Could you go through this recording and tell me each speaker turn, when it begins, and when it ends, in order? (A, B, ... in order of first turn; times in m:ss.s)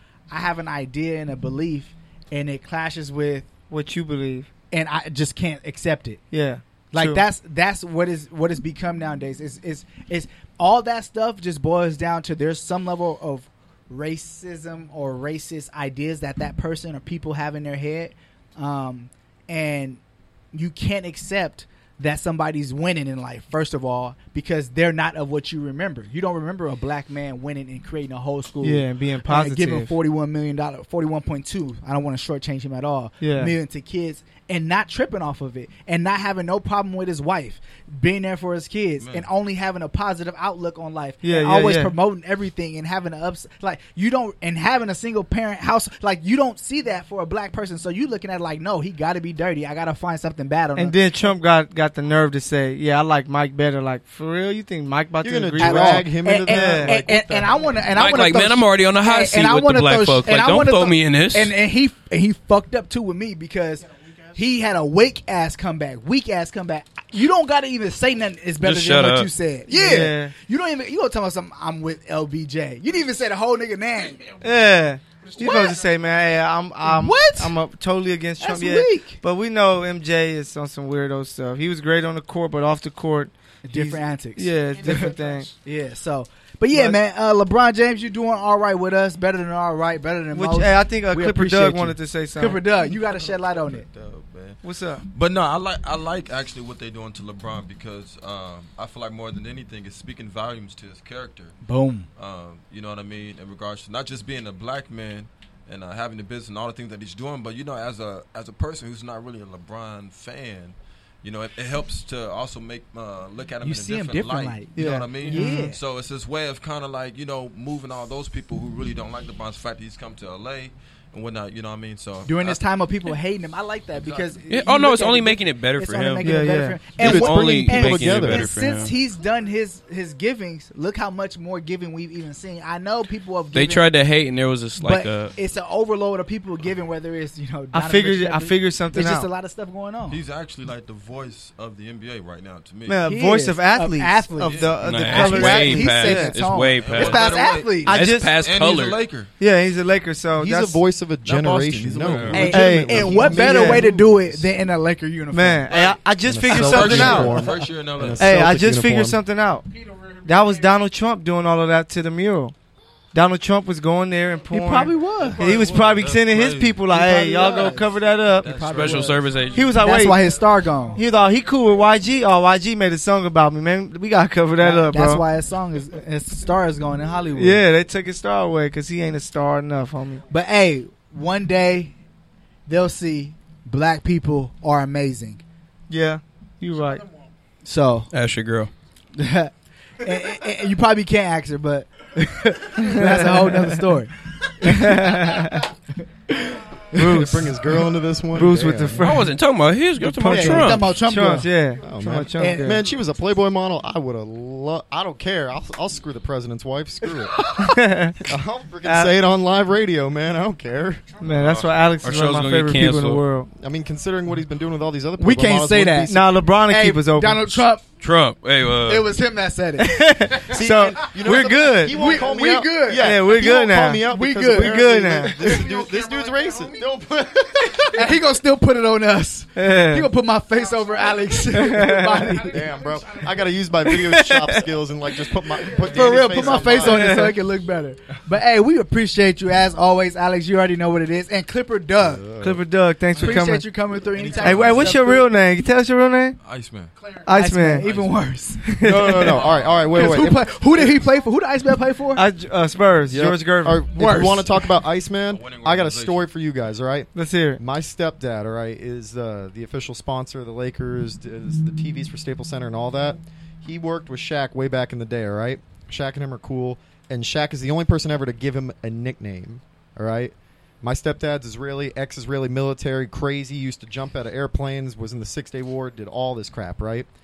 0:00.3-0:03.5 A
0:03.7-0:04.5 B
0:04.7-0:06.2 A
0:06.3-0:07.2 B
0:06.9-0:20.0 A
0:20.5-0:51.0 A
0:28.6-0:29.9 B
0:33.2-0:33.5 B
0:39.0-0:39.3 C
0:41.2-0:41.9 B
0:50.8-0:57.0 B
0:55.2-0:57.7 D
0:55.6-1:14.3 A
0:57.9-1:01.5 E
1:08.6-1:09.3 E
1:09.7-1:10.3 B
1:14.4-1:25.5 B
1:15.4-1:15.8 A
1:16.8-1:17.5 A
1:18.4-1:19.2 A
1:23.6-1:33.8 A
1:30.3-1:32.6 B
1:32.8-1:41.6 C
1:34.6-1:35.0 B
1:41.6-1:42.1 A
1:42.2-2:02.6 C
1:53.6-1:55.8 A
1:54.8-1:55.7 B
2:02.2-2:13.8 A
2:04.0-2:04.3 C
2:04.5-2:08.9 E
2:06.2-2:06.8 B
2:07.0-2:08.5 D
2:13.5-2:15.3 E
2:14.8-2:20.2 A
2:17.7-2:19.3 B
2:20.1-2:23.0 C
2:22.9-2:26.4 B
2:23.0-2:27.9 A
2:24.4-2:24.8 C
2:24.8-2:27.3 E
2:26.8-2:29.3 C
2:27.8-2:28.4 B
2:27.9-2:29.0 E
2:29.4-2:30.8 B
2:30.4-2:34.4 D
2:31.2-2:32.6 C
2:32.0-2:32.4 E
2:32.3-2:35.6 A
2:32.5-2:33.9 B
2:35.3-2:37.5 B
2:36.2-2:39.2 D
2:36.5-2:38.2 C
2:38.2-2:39.7 B
2:40.2-2:42.5 B
2:43.1-2:48.6 B
2:44.5-2:45.6 A
2:45.1-2:46.8 C
2:46.9-2:49.2 A
2:48.4-2:49.6 C
2:48.7-2:49.7 E
2:49.5-2:50.3 B
2:49.8-2:51.0 A
2:50.9-2:55.2 B
2:54.6-2:57.6 A
2:57.4-3:00.2 B
3:00.3-3:01.9 A
3:02.7-3:05.4 A
3:05.9-3:07.0 B
3:07.6-3:08.1 A
3:08.1-3:08.7 E
3:09.1-3:15.7 A
3:12.8-3:13.7 B
3:14.6-3:15.6 B
3:16.3-3:17.3 A
3:16.9-3:19.1 D
3:17.0-3:17.3 B
3:18.3-3:19.3 B
3:19.0-3:21.0 E
3:20.0-3:22.8 B
3:20.2-3:21.5 A
3:21.8-3:27.5 D
3:22.4-3:22.8 A
3:27.5-3:28.3 B
3:28.2-3:31.2 D
3:28.8-3:29.1 B
3:31.2-3:33.5 B
3:31.4-3:31.7 C
3:32.0-3:33.2 E
3:33.5-3:36.3 D
3:35.2-3:36.1 A
3:36.1-3:37.6 B
3:36.7-3:37.8 A
3:38.0-3:39.1 E
3:38.9-3:40.8 A
3:39.8-3:42.2 B
3:40.5-3:48.2 D
3:41.9-3:45.7 A
3:43.0-3:45.6 B
3:47.9-3:52.7 A
3:49.6-3:50.1 B
3:51.5-3:52.4 B
3:52.4-3:57.3 D
3:53.8-3:54.6 B
3:55.7-4:02.2 A
3:56.8-3:57.3 B
4:02.0-4:02.6 D
4:02.4-4:03.7 B
4:03.1-4:05.3 A
4:04.1-4:05.0 C
4:04.4-4:06.4 B
4:06.4-4:06.9 C
4:07.2-4:07.8 B
4:07.3-4:08.6 A
4:07.8-4:08.3 C
4:08.6-4:09.4 B
4:08.8-4:10.6 D
4:09.4-4:10.0 C
4:09.9-4:12.2 A
4:12.2-4:14.3 B
4:13.1-4:37.1 D
4:13.9-4:14.5 A
4:15.3-4:16.3 C
4:17.1-4:17.6 B